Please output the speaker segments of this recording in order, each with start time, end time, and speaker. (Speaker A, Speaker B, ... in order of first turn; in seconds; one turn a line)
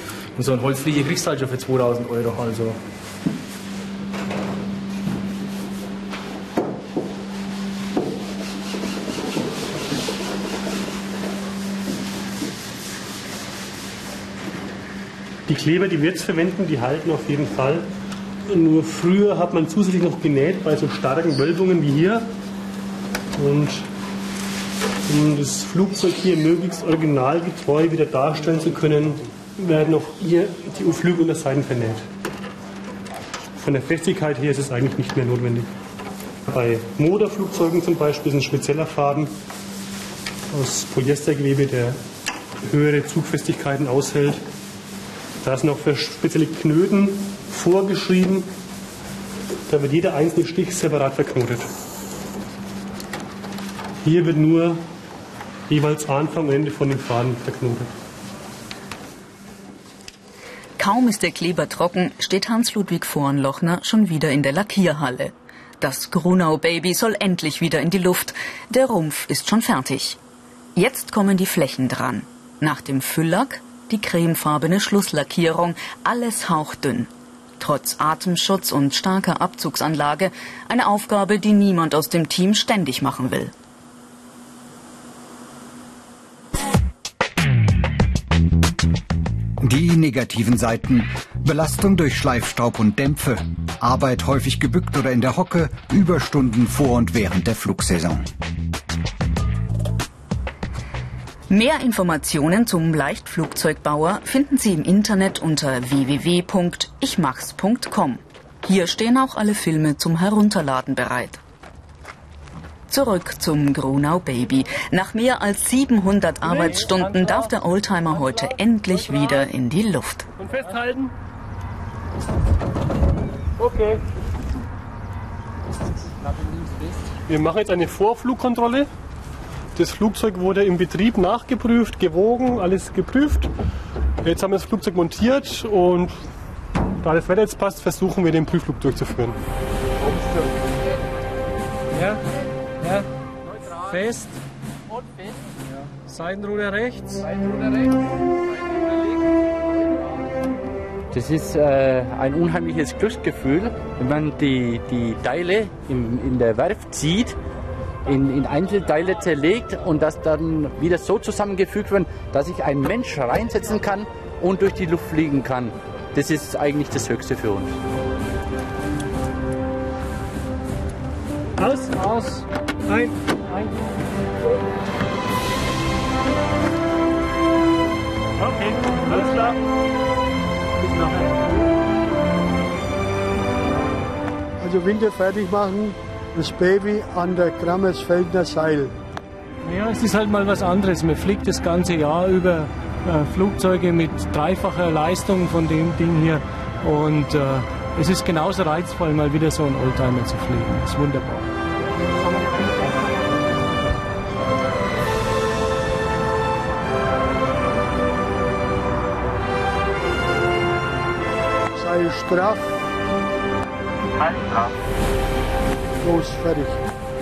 Speaker A: 0.4-2.8
Speaker B: 15.5-17.9
Speaker B: 18.5-22.3
Speaker B: 23.4-23.9
Speaker B: 25.1-32.1
Speaker B: 33.6-35.7
Speaker B: 36.5-39.3
Speaker B: 40.5-42.0
Speaker B: 42.6-44.4
Speaker B: 45.4-48.5
Speaker B: 49.7-51.7
Speaker B: 54.0-54.8
Speaker B: 55.7-57.9
Speaker C: 60.8-70.2
Speaker C: 70.8-83.5
Speaker D: 89.6-98.3
Speaker C: 101.5-111.4
Speaker C: 112.9-120.3
Speaker B: 120.4-121.1
Speaker B: 127.3-128.9
Speaker B: 129.8-133.5
Speaker B: 134.2-136.2
Speaker B: 137.0-139.4
Speaker E: 142.0-142.2
Speaker E: 142.8-143.1
Speaker E: 143.7-144.4
Speaker E: 146.1-147.3
Speaker F: 151.1-157.4
Speaker F: 158.1-167.8
Speaker E: 171.6-173.8
Speaker E: 178.5-179.6
Speaker E: 180.8-181.4
Speaker G: 184.6-188.9
Speaker E: 189.6-201.5
Speaker G: 211.8-212.8
Speaker G: 216.0-216.8